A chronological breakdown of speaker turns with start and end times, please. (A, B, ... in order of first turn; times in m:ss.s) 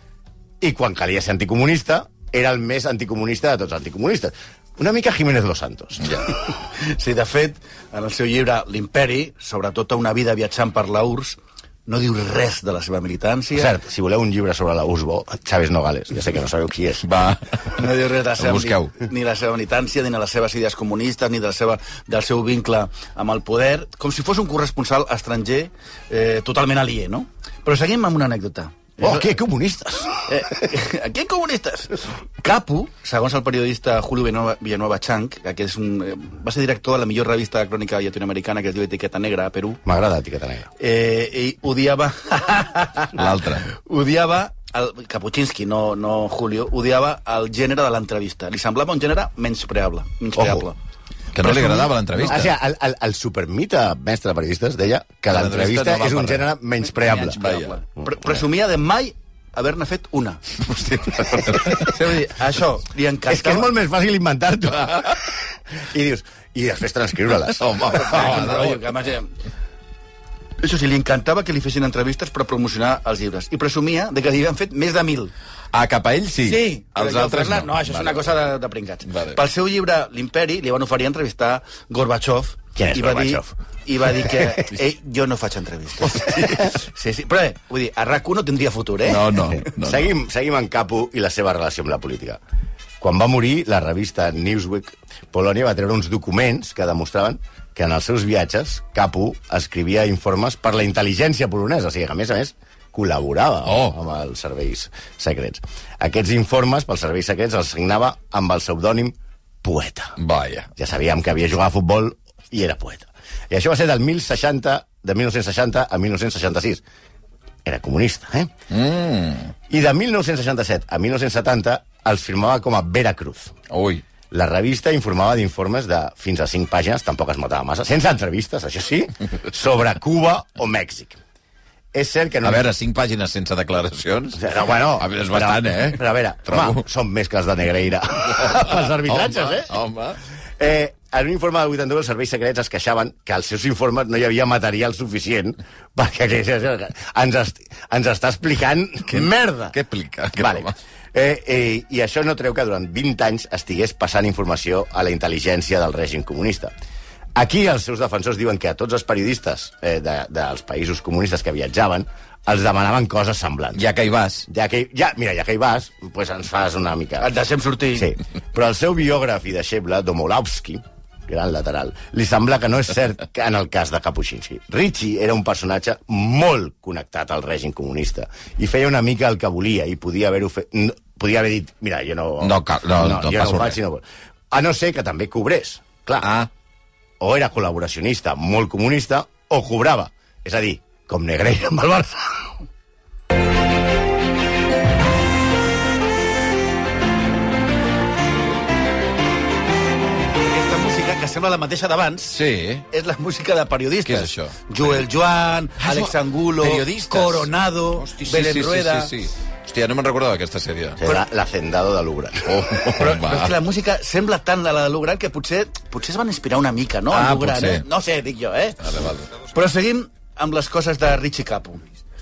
0:00.6-0:06.2 A
0:06.5-0:13.7 B
0:13.6-0:17.1 A
0:17.0-0:18.9 C
0:17.8-0:29.3 B
0:29.0-0:30.6 A
0:30.3-0:39.8 B
0:39.8-0:40.7 A
0:40.8-0:50.8 B
0:43.1-0:43.7 C
0:50.4-0:50.7 A
0:51.4-0:52.5 C
0:51.4-0:52.4 B
0:51.5-0:57.4 A
0:55.3-0:56.5 C
0:57.0-1:00.6 B
0:57.2-0:57.8 C
1:00.6-1:01.9 C
1:01.7-1:03.7 B
1:03.3-1:08.4 A
1:07.5-1:08.8 C
1:07.9-1:09.3 B
1:10.6-1:15.3 B
1:15.7-1:18.3 C
1:16.4-1:29.3 B
1:19.1-1:19.4 C
1:22.8-1:23.5 A
1:24.2-1:24.6 A
1:26.1-1:26.8 A
1:29.1-1:30.1 C
1:29.6-1:32.4 A
1:33.0-1:50.2 A
1:43.6-1:44.0 C
1:50.2-1:50.7 C
1:50.8-1:56.8 A
1:57.6-1:58.5 A
1:58.7-1:59.5 C
1:59.7-2:03.6 A
2:03.7-2:04.0 C
2:04.3-2:11.2 A
2:11.9-2:12.7 A
2:12.4-2:14.4 C
2:14.4-2:19.8 A
2:15.0-2:16.8 C
2:18.4-2:20.2 C
2:20.6-2:29.8 A
2:29.1-2:30.8 C
2:30.4-2:36.7 A
2:37.4-2:43.8 A
2:43.8-2:44.5 C
2:44.5-2:47.3 A
2:47.2-2:48.1 B
2:48.0-3:06.3 A
3:02.4-3:03.8 C
3:06.2-3:06.5 C
3:07.2-3:12.5 A
3:20.5-3:22.4 B
3:22.3-3:22.8 C
3:22.9-3:29.1 B
3:24.0-3:25.1 C
3:25.8-3:31.0 C
3:31.0-3:32.7 A
3:32.5-3:33.6 C
3:33.0-3:38.8 B
3:37.1-3:37.8 C
3:38.8-3:39.3 C
3:39.4-3:41.8 B